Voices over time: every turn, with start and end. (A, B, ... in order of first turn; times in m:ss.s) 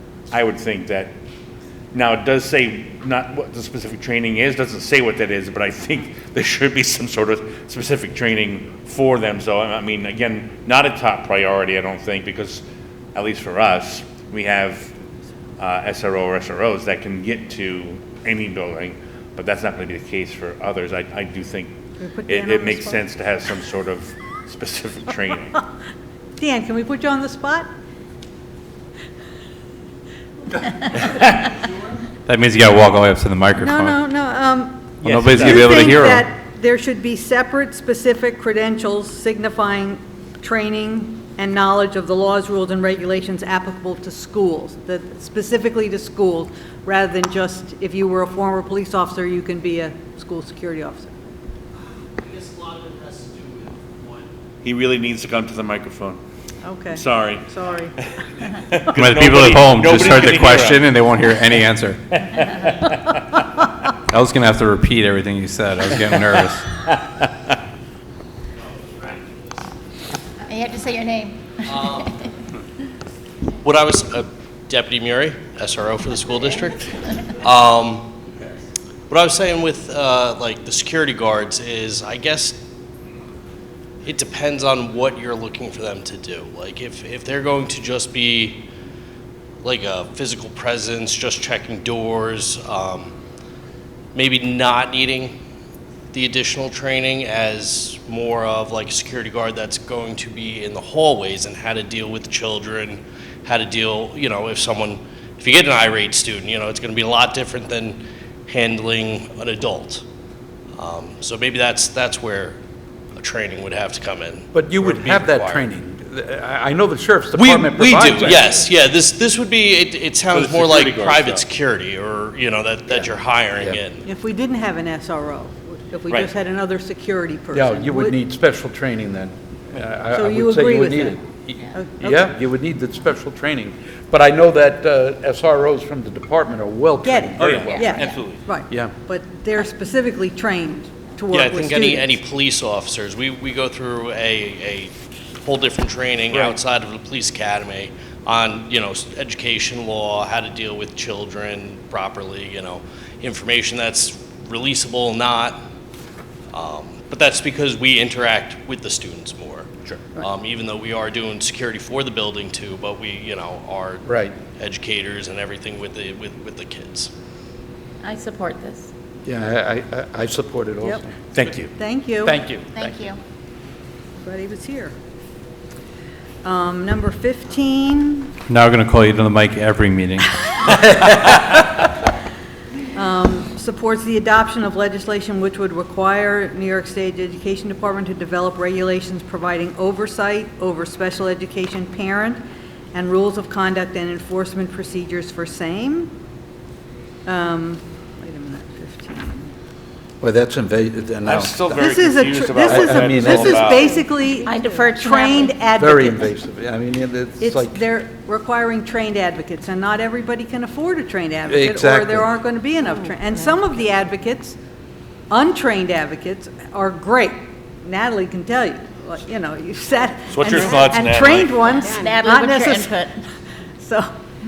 0:00.3-0:01.1 A
0:01.9-0:12.6 A
0:13.1-0:14.9 A
0:15.6-0:21.7 A
0:22.0-0:23.0 B
0:22.3-0:25.5 A
0:26.4-0:27.7 B
0:32.2-0:34.0 C
0:33.6-0:51.1 B
0:35.0-0:36.2 C
0:35.0-0:35.9 A
0:52.2-0:54.0 D
0:54.6-0:56.2 A
0:56.6-0:57.9 B
0:56.9-1:00.8 A
0:59.0-1:02.2 C
1:02.3-1:02.6 A
1:04.1-1:06.6 C
1:10.4-1:12.3 E
1:11.7-1:12.1 D
1:13.6-1:18.2 D
1:19.1-1:22.6 D
1:24.0-1:28.7 D
1:29.6-1:33.1 D
1:34.1-1:35.3 D
1:36.1-1:50.0 D
1:50.8-1:52.6 D
1:53.1-1:55.7 D
1:54.5-1:58.6 F
1:57.3-2:04.0 D
2:00.3-2:01.4 A
2:04.0-2:08.2 B
2:07.5-2:17.9 F
2:10.1-2:11.2 B
2:11.7-2:12.3 B
2:17.0-2:22.2 B
2:17.4-2:18.4 A
2:17.5-2:18.2 E
2:21.3-2:35.6 D
2:36.5-2:47.1 D
2:44.0-2:44.3 F
2:48.0-2:48.9 E
2:49.2-2:51.1 F
2:51.3-2:51.7 A
2:51.8-2:52.4 B
2:52.2-2:52.9 F
2:52.7-2:53.2 E
2:54.2-2:54.9 B
2:56.4-2:58.4 B
2:58.5-3:00.3 C
3:02.9-3:12.4 B
3:12.9-3:16.1 B
3:17.2-3:19.5 B
3:20.2-3:21.9 F
3:21.2-3:24.0 A
3:21.7-3:26.3 B
3:22.7-3:23.7 F
3:24.4-3:25.7 E
3:25.7-3:27.8 F
3:27.4-3:34.6 B
3:31.5-3:32.3 F
3:35.3-3:43.2 B
3:40.3-3:41.6 A
3:41.7-3:43.2 E
3:43.8-3:44.1 B